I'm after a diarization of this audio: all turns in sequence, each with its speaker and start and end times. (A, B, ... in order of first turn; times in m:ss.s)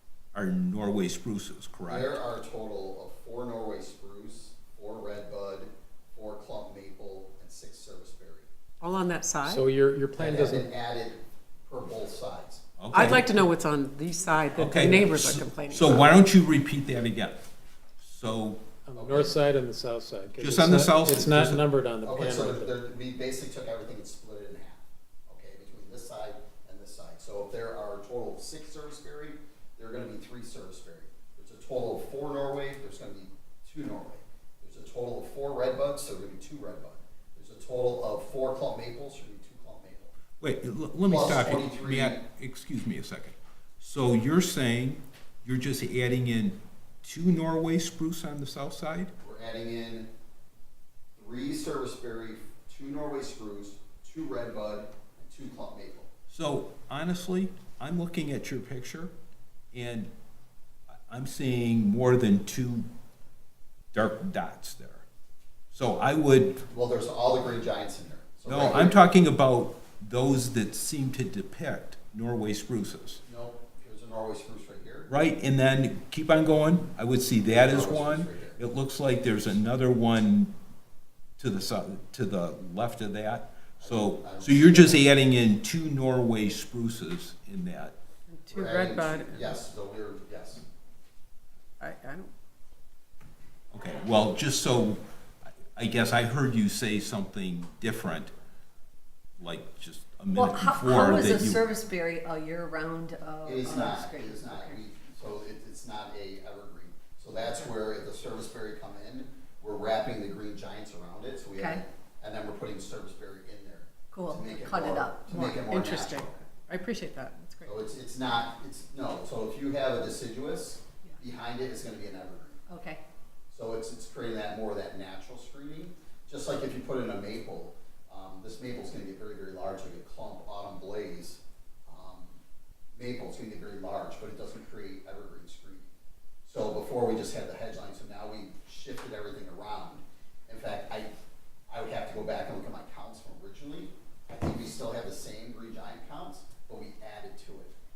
0:00.3-0:02.2 A
0:01.9-0:08.5 B
0:08.8-0:09.7 C
0:09.4-0:10.7 D
0:10.1-0:12.6 B
0:12.8-0:13.3 A
0:12.9-0:16.2 C
0:14.5-0:17.4 A
0:18.0-0:18.6 A
0:18.8-0:22.7 D
0:18.9-0:19.4 B
0:20.4-0:21.6 A
0:22.0-0:40.1 B
0:40.4-0:49.1 A
0:41.0-0:42.2 B
0:49.2-0:50.1 B
0:51.2-0:56.1 B
0:56.3-0:59.1 A
0:59.7-1:00.1 A
1:01.1-1:02.9 A
1:03.9-1:05.0 A
1:05.7-1:06.6 A
1:06.7-1:09.1 B
1:08.5-1:13.2 A
1:13.2-1:15.1 B
1:15.1-1:20.5 A
1:17.4-1:18.6 B
1:21.4-1:27.9 A
1:23.8-1:25.1 B
1:28.3-1:29.6 C
1:28.5-1:30.6 B
1:31.8-1:32.3 C
1:33.7-1:35.0 A
1:35.8-1:38.3 A
1:39.4-1:41.6 A
1:40.3-1:44.8 E
1:43.4-1:56.4 B
1:51.5-1:51.8 E
1:54.1-1:55.2 E
1:55.3-1:57.7 C
1:57.6-2:02.6 B
2:02.7-2:03.0 E
2:03.5-2:12.4 B
2:13.0-2:15.9 B
2:16.4-2:21.1 B
2:21.7-2:27.7 B